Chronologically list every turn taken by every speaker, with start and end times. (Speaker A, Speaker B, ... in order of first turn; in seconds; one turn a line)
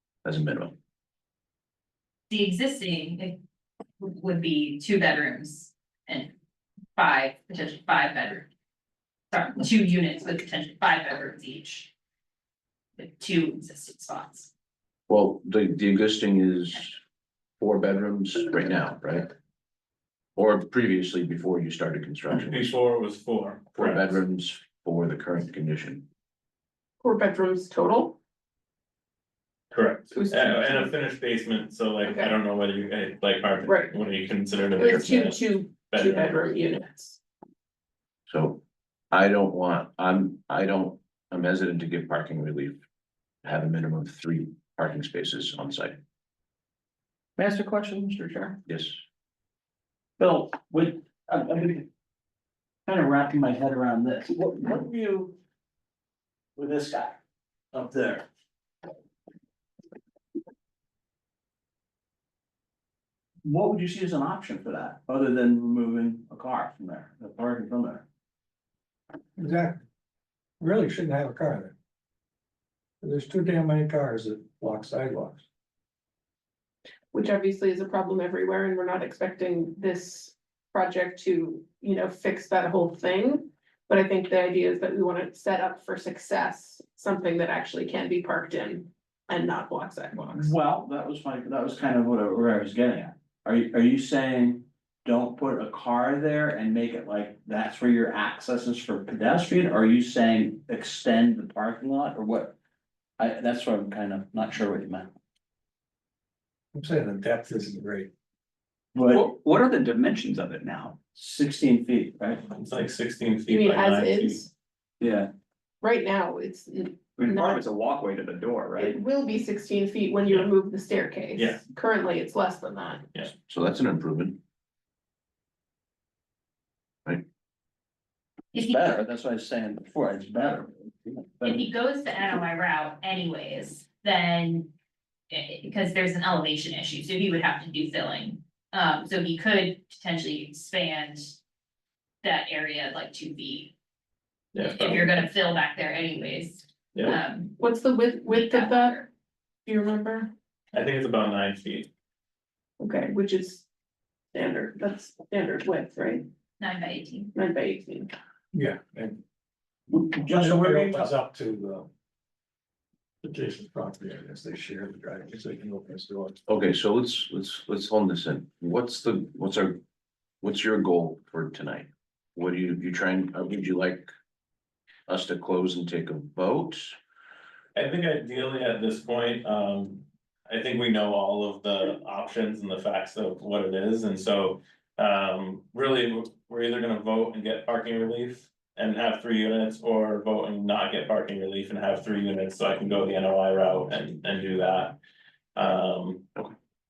Speaker A: 0.2-0.8
Speaker B: 2.3-3.4
Speaker B: 4.0-6.3
Speaker B: 7.0-8.4
Speaker B: 9.3-11.9
Speaker B: 13.0-14.5
Speaker A: 15.1-17.0
Speaker A: 17.6-19.3
Speaker A: 20.4-22.7
Speaker C: 22.3-24.2
Speaker A: 23.7-26.1
Speaker D: 27.0-28.2
Speaker C: 29.7-36.5
Speaker D: 30.1-30.9
Speaker D: 32.0-32.4
Speaker D: 33.6-33.9
Speaker D: 34.8-37.2
Speaker A: 38.3-42.8
Speaker A: 43.4-46.0
Speaker E: 47.4-48.6
Speaker A: 48.6-49.0
Speaker E: 50.2-51.9
Speaker E: 52.9-55.4
Speaker E: 56.5-57.2
Speaker E: 57.7-58.2
Speaker E: 63.4-68.0
Speaker F: 69.4-69.8
Speaker F: 70.6-71.7
Speaker F: 73.0-75.4
Speaker D: 77.1-90.5
Speaker E: 90.3-102.5
Speaker E: 103.2-105.1
Speaker F: 106.7-108.1
Speaker E: 108.9-109.3
Speaker G: 109.1-110.9
Speaker E: 111.0-112.4
Speaker C: 112.5-114.4
Speaker D: 113.5-114.5
Speaker E: 115.0-115.3
Speaker D: 115.8-117.6
Speaker G: 117.5-118.8
Speaker D: 118.8-123.0
Speaker C: 121.3-121.6
Speaker A: 123.5-124.4
Speaker B: 128.5-128.9
Speaker E: 128.6-131.7
Speaker B: 131.4-134.7
Speaker B: 135.3-141.3
Speaker B: 142.2-143.7
Speaker C: 144.5-145.2
Speaker B: 144.6-147.6
Speaker C: 146.9-147.2
Speaker D: 147.6-149.0
Speaker B: 148.3-149.1
Speaker D: 149.7-150.3
Speaker C: 150.7-151.9
Speaker D: 152.8-153.6
Speaker D: 154.3-156.2
Speaker B: 156.6-157.3
Speaker D: 157.3-158.1
Speaker F: 158.5-159.2
Speaker E: 159.9-161.1
Speaker F: 160.3-161.9
Speaker F: 163.2-166.3
Speaker A: 166.5-169.8
Speaker A: 170.4-174.1
Speaker A: 175.1-176.9
Speaker C: 177.7-195.0
Speaker C: 195.6-196.2